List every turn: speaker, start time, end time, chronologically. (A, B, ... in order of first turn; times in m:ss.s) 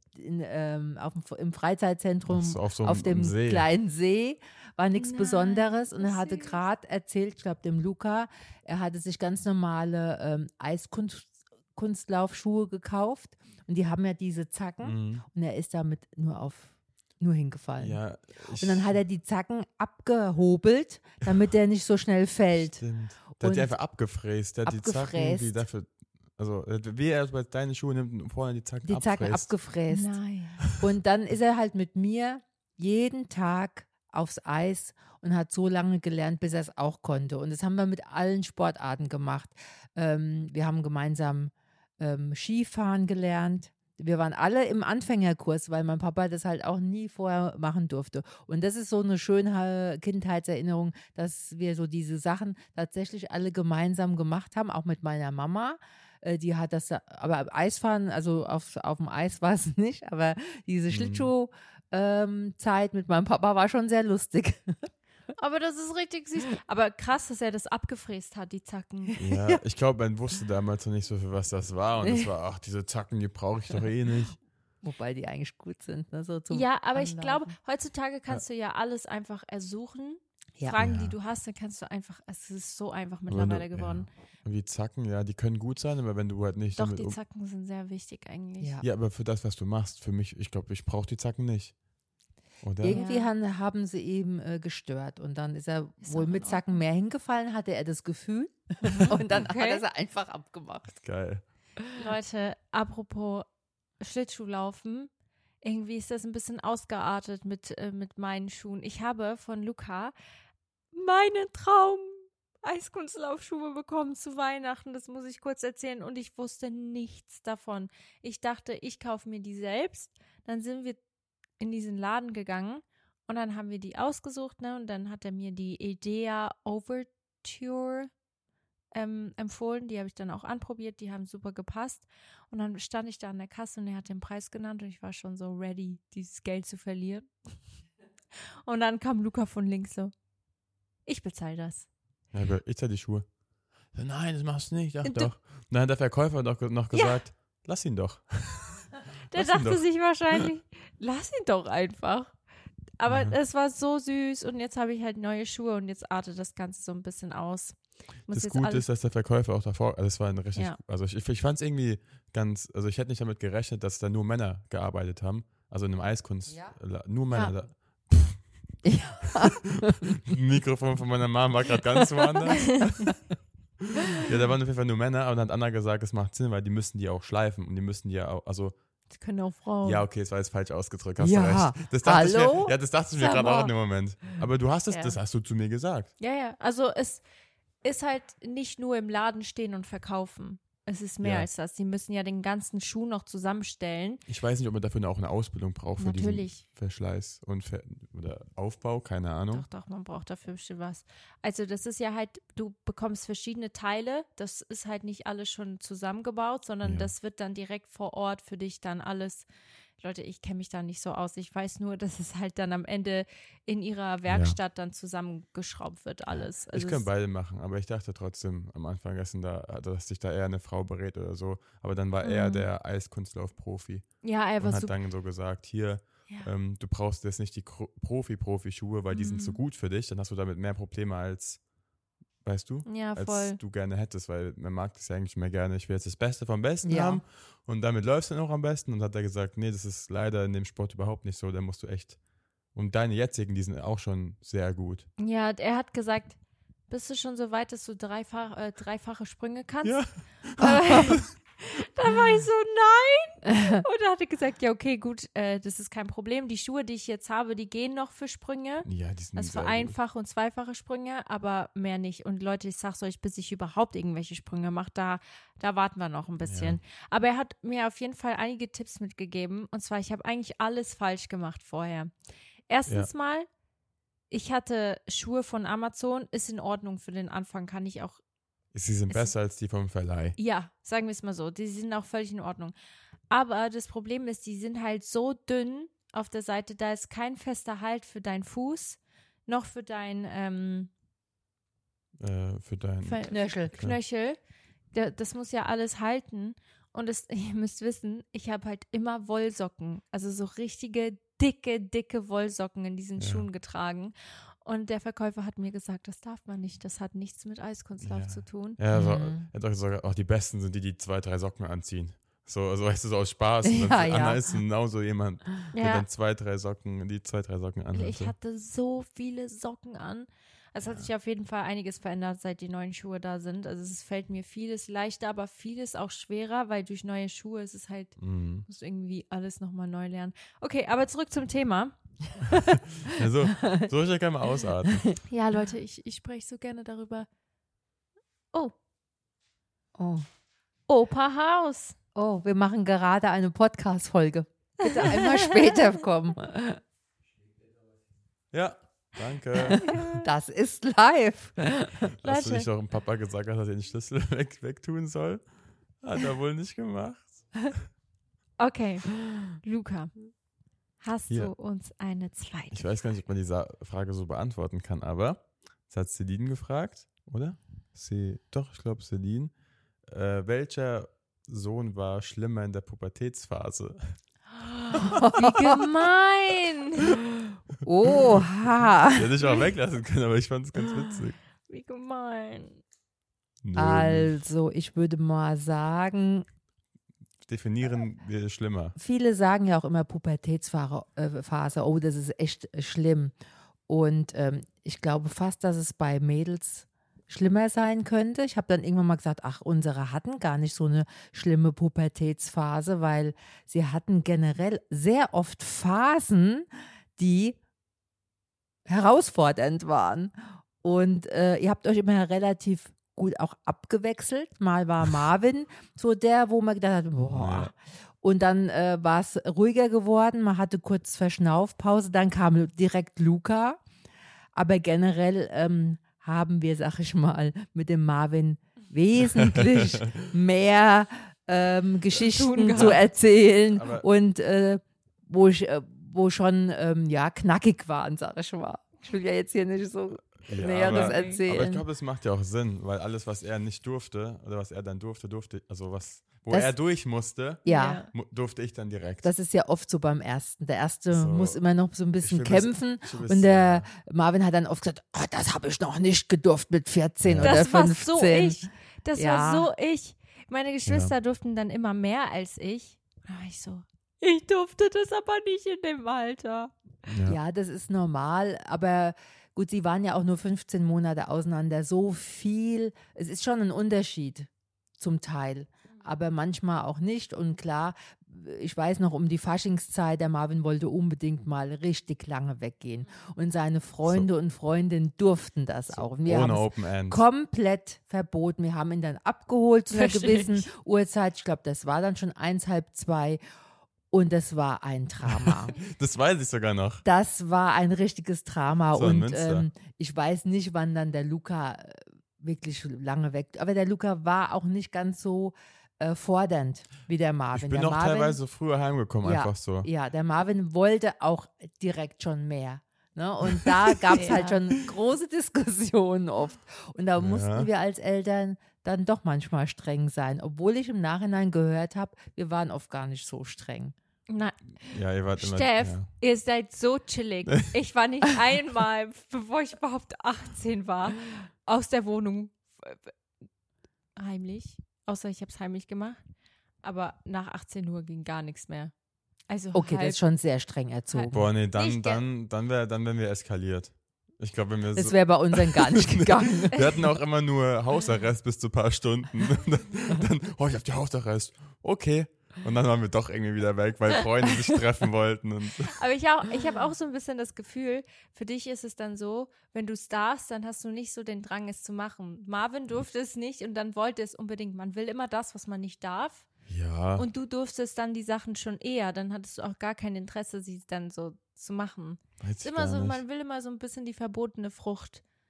0:00.1-0:18.0 A
0:02.3-0:03.7 B
0:05.0-0:06.6 C
0:14.8-0:15.2 B
0:17.8-0:19.0 B
0:18.6-0:22.8 A
0:22.6-0:29.5 B
0:23.4-0:23.7 A
0:24.6-0:25.6 A
0:28.8-0:30.2 A
0:29.9-0:30.6 C
0:30.7-1:04.9 A
1:00.9-1:01.3 B
1:05.4-1:09.2 C
1:09.2-1:14.4 B
1:09.3-1:09.6 A
1:12.0-1:12.3 A
1:14.8-1:17.5 A
1:16.5-1:24.1 C
1:20.8-1:21.1 B
1:23.3-1:27.2 B
1:26.8-1:28.8 C
1:28.8-1:31.8 B
1:32.6-1:33.0 B
1:32.8-1:41.0 A
1:32.9-1:33.3 C
1:36.0-1:36.8 C
1:38.8-1:39.8 C
1:41.0-1:41.4 B
1:41.9-1:43.4 C
1:44.0-1:45.1 C
1:45.6-1:50.1 C
1:50.9-2:01.0 C
2:01.6-2:08.1 C
2:08.9-2:17.3 C
2:18.6-2:20.1 C
2:21.0-2:21.9 C
2:22.3-2:23.4 B
2:23.9-2:30.5 B
2:25.0-2:25.3 C
2:26.9-2:27.2 C
2:29.3-2:32.4 C
2:33.0-2:38.8 C
2:33.1-2:33.4 B
2:38.3-2:53.2 B
2:46.5-2:46.8 A
2:48.8-2:50.0 A
2:54.1-2:58.7 B
2:59.1-3:00.0 C
2:59.8-3:06.1 B
3:01.2-3:03.7 A
3:03.2-3:03.6 C
3:04.9-3:05.2 C
3:06.2-3:07.2 C
3:07.8-3:14.2 C
3:11.2-3:11.5 B
3:14.3-3:19.6 B
3:16.0-3:16.6 C
3:19.5-3:29.5 C
3:26.8-3:27.1 B
3:30.0-3:37.0 C
3:34.3-3:34.6 B
3:36.3-3:51.6 B
3:42.2-3:42.7 C
3:44.2-3:44.9 C
3:49.1-3:49.6 C
3:52.4-4:02.2 B
3:52.8-3:53.6 C
3:56.8-3:57.2 A
4:02.7-4:05.1 B
4:05.2-4:06.4 C
4:06.9-4:32.1 C
4:09.8-4:11.2 B
4:18.8-4:20.0 B
4:26.4-4:26.8 B
4:32.7-4:33.5 C
4:34.3-4:38.2 C
4:38.7-4:40.4 B
4:40.4-4:42.7 C
4:43.3-4:50.9 C
4:52.2-4:54.0 B
4:53.0-4:54.4 C
4:53.3-4:53.7 A
4:54.9-5:08.8 C
5:03.2-5:03.4 B
5:08.0-5:18.3 B
5:08.9-5:09.5 A
5:13.6-5:14.4 A
5:15.7-5:16.0 C
5:17.9-5:31.9 C
5:20.8-5:21.1 B
5:28.2-5:28.6 B
5:33.0-5:35.2 B
5:35.3-5:37.3 C
5:39.9-5:40.2 A
5:40.9-5:42.0 C
5:42.1-5:46.8 A
5:44.8-5:45.8 C
5:48.5-5:49.9 B
5:49.6-5:52.0 A
5:49.7-5:50.3 C
5:52.2-5:57.8 B
5:52.2-5:52.7 C
5:58.6-6:00.2 C
6:01.0-6:03.0 C
6:02.7-6:14.2 B
6:14.5-6:17.2 C
6:15.1-6:15.7 A
6:17.8-6:19.3 A
6:19.0-6:21.4 B
6:19.4-6:19.7 C
6:21.7-6:22.8 C
6:23.6-6:24.4 B
6:23.8-6:26.4 A
6:27.4-6:29.0 B
6:29.0-6:33.3 A
6:33.9-6:47.6 A
6:48.8-7:03.8 A
6:57.3-6:57.7 B
7:04.5-7:21.8 A
7:12.2-7:13.0 C
7:12.7-7:13.0 B
7:13.7-7:14.1 B
7:20.5-7:29.3 B
7:20.8-7:21.4 C
7:26.5-7:26.8 A
7:27.6-7:28.0 A
7:27.6-7:28.1 C
7:29.2-7:39.7 A
7:31.1-7:31.6 B
7:32.2-7:33.9 B
7:37.2-7:37.6 B
7:37.4-7:46.7 C
7:40.8-7:41.1 B
7:47.1-7:47.4 B
7:47.2-8:13.4 A
8:05.9-8:07.2 B
8:09.9-8:10.7 C
8:14.1-8:15.7 A
8:15.2-8:17.0 B
8:17.0-8:28.4 A
8:18.9-8:19.7 B
8:27.5-8:29.9 B
8:29.2-8:43.9 A
8:34.1-8:34.6 C
8:37.2-8:37.7 B
8:44.3-8:44.8 C
8:44.8-8:46.1 B
8:45.3-8:53.1 C
8:54.2-8:56.2 C
8:56.8-8:58.9 C
8:59.5-9:00.2 C
8:59.7-9:01.5 A
9:01.1-9:02.2 C
9:01.3-9:16.0 B
9:04.9-9:06.9 A
9:15.9-9:26.5 C
9:26.7-9:27.3 B
9:27.2-9:35.2 C
9:32.4-9:33.2 B